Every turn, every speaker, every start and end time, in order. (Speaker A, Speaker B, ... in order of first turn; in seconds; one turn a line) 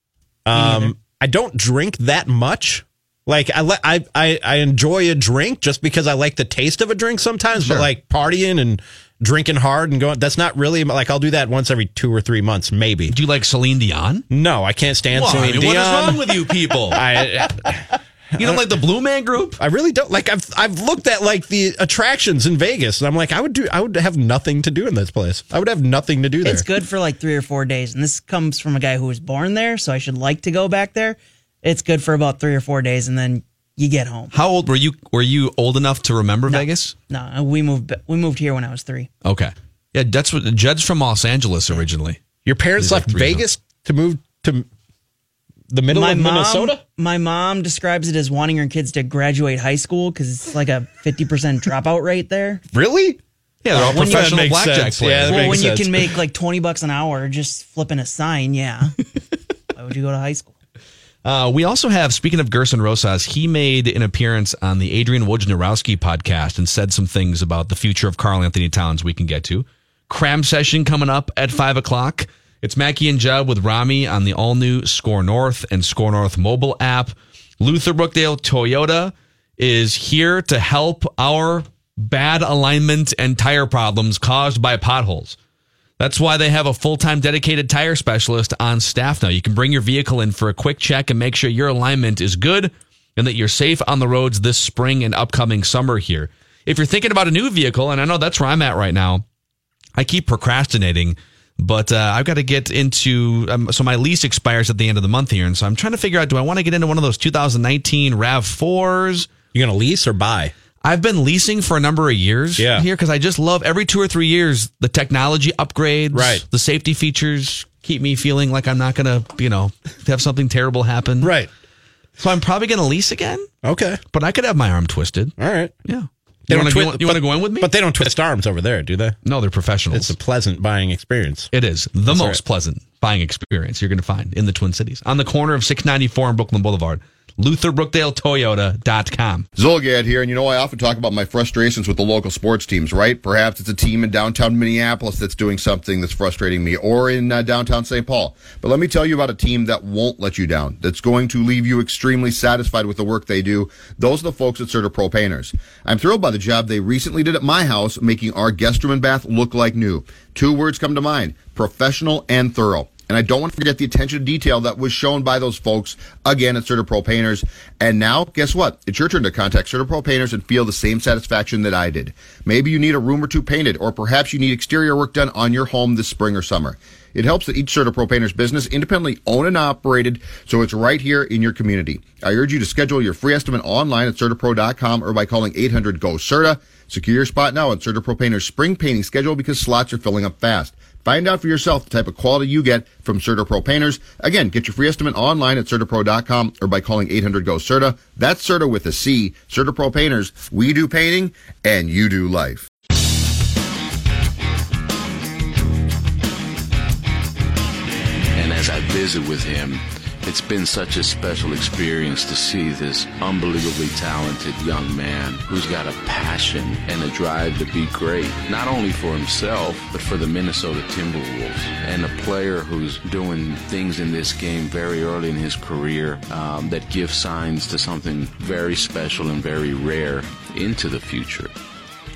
Speaker A: 0.5-13.2
Speaker B: 7.6-7.9
Speaker B: 13.1-14.2
Speaker A: 14.3-17.8
Speaker B: 15.1-17.0
Speaker A: 18.4-18.6
Speaker B: 18.4-19.6
Speaker A: 19.6-26.7
Speaker C: 26.4-34.3
Speaker B: 34.3-36.9
Speaker C: 36.5-39.1
Speaker B: 39.2-42.2
Speaker A: 42.5-44.6
Speaker B: 42.8-43.4
Speaker A: 45.7-46.8
Speaker C: 45.9-52.6
Speaker A: 52.7-53.2
Speaker B: 53.6-55.8
Speaker A: 53.7-56.0
Speaker C: 53.9-54.4
Speaker C: 55.2-58.9
Speaker C: 59.7-60.5
Speaker B: 61.2-85.3
Speaker B: 86.0-99.2
Speaker B: 100.0-109.3
Speaker A: 109.5-110.5
Speaker B: 110.8-121.3
Speaker A: 112.6-112.8
Speaker A: 116.1-116.4
Speaker A: 121.2-121.5
Speaker B: 122.2-123.5
Speaker A: 123.6-124.0
Speaker B: 124.1-125.3
Speaker A: 125.4-125.7
Speaker B: 125.8-127.7
Speaker A: 126.5-129.2
Speaker B: 129.2-130.1
Speaker A: 129.9-131.5
Speaker B: 131.5-139.5
Speaker A: 132.1-132.4
Speaker D: 139.6-202.7
Speaker E: 208.3-231.5